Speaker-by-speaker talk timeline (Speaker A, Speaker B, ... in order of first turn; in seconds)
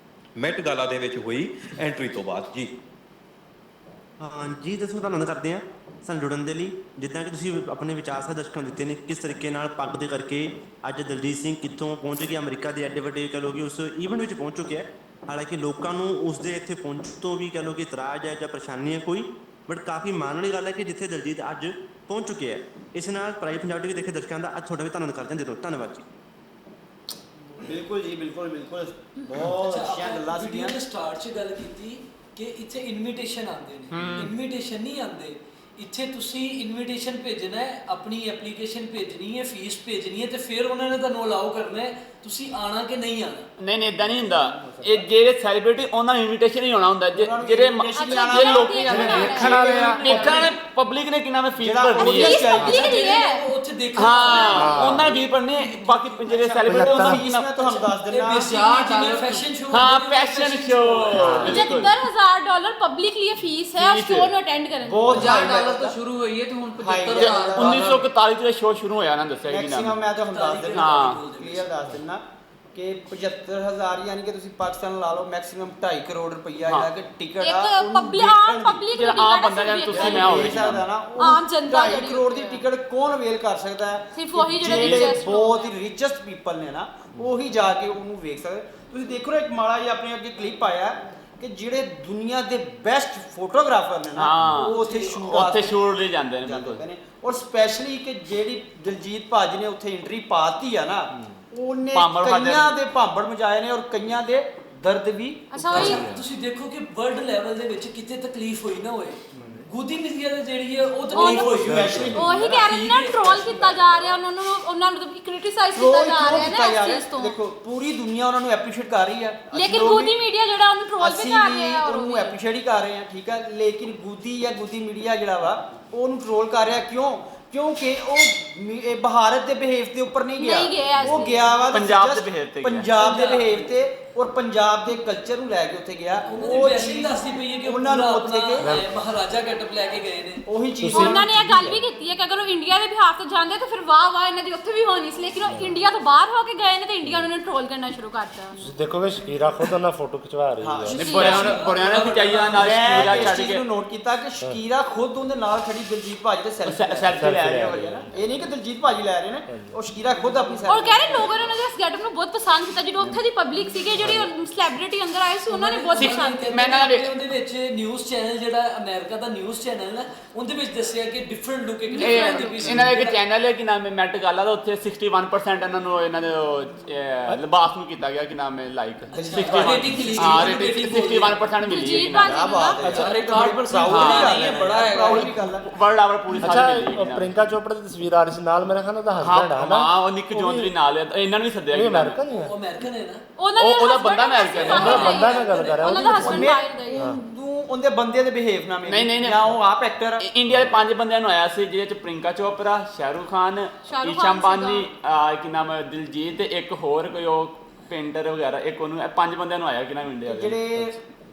Speaker A: 0.4-2.7
Speaker B: 4.2-26.1
Speaker C: 27.6-30.8, 44.0-45.1, 47.1-50.5, 51.6-53.0, 55.8-58.6, 61.5-61.8, 64.8-66.0, 66.8-67.8, 69.5-72.2, 72.7-79.3, 79.9-95.8, 96.4-106.0, 111.1-112.3, 115.8-120.2, 121.0-137.1, 137.6-138.7, 140.5-141.8, 150.6-161.3, 179.1-180.7, 182.2-185.7, 196.0-200.2, 210.3-211.0
Speaker D: 29.4-43.5, 50.2-50.5, 52.7-55.1, 57.6-61.4, 70.3-71.7, 94.8-95.1, 105.7-113.8, 133.0-133.7, 136.2-140.4, 151.0-153.1, 165.5-173.2, 179.1-181.4, 192.3-193.2, 194.6-196.3
Speaker E: 33.9-34.3, 43.6-52.7, 53.9-57.6, 59.7-61.9, 63.7-64.3, 67.1-70.0, 70.7-71.2, 79.0-80.9, 84.8-85.1, 94.2-96.8, 101.9-102.8, 131.7-132.9, 151.0-153.6, 156.6-157.8, 165.9-167.2, 172.0-182.6, 183.9-184.3, 185.1-187.5, 189.2-192.2, 193.6-195.0, 198.9-199.6, 200.2-210.6
Speaker F: 47.9-49.8, 52.0-53.5, 54.2-54.8, 61.5-65.3, 77.4-80.7, 81.2-82.6, 84.1-85.7, 105.5-106.1, 111.1-117.4, 119.5-122.3, 130.4-131.5, 140.9-148.6, 151.1-151.7, 160.7-166.6, 171.9-172.8, 181.6-182.8, 193.4-197.1, 203.8-204.9
Speaker G: 48.9-50.3, 52.6-52.8, 54.5-55.1, 56.7-57.2, 61.2-61.6, 105.8-106.2, 109.3-109.7, 111.6-112.4, 138.6-139.0, 140.8-141.2, 145.4-145.8, 147.1-147.3, 148.6-151.1, 157.1-158.5, 159.5-159.8, 182.8-183.1, 186.4-190.7, 191.7-192.6, 194.7-197.2, 200.5-200.8
Speaker H: 58.6-59.4, 65.1-68.1, 182.9-185.3